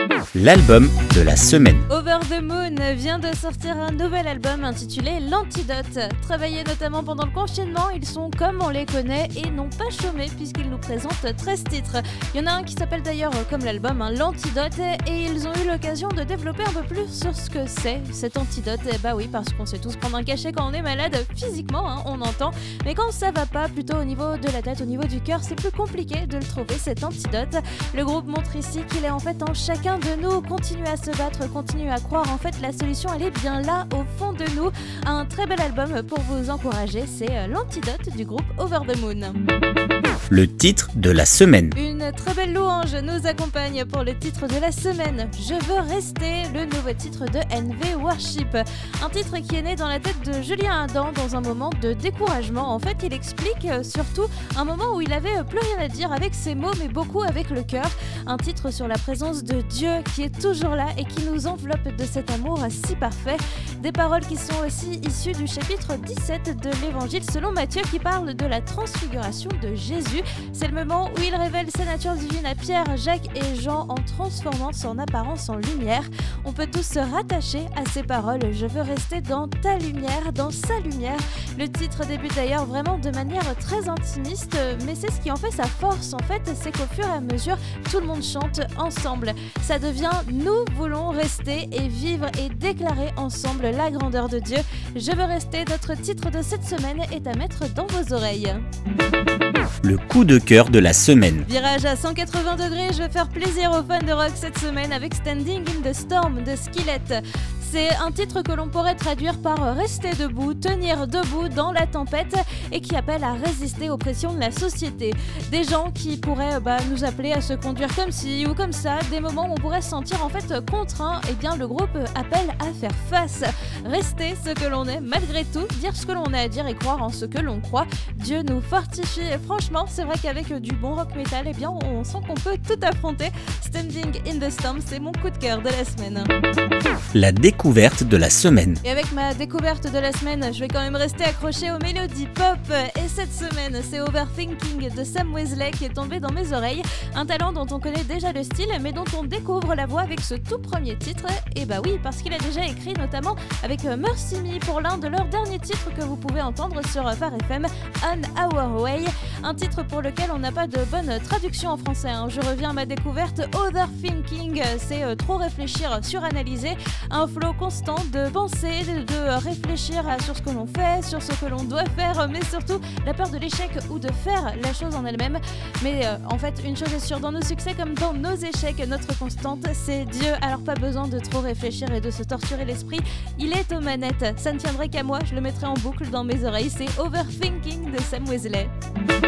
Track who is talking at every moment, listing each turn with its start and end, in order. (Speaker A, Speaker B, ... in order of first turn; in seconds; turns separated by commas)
Speaker A: 0.3-1.9, Speaker B: 1.9-39.4, Speaker A: 40.3-41.8, Speaker B: 41.8-98.6, Speaker A: 99.8-101.5, Speaker B: 101.5-136.3, Speaker A: 137.1-138.8, Speaker B: 138.8-188.7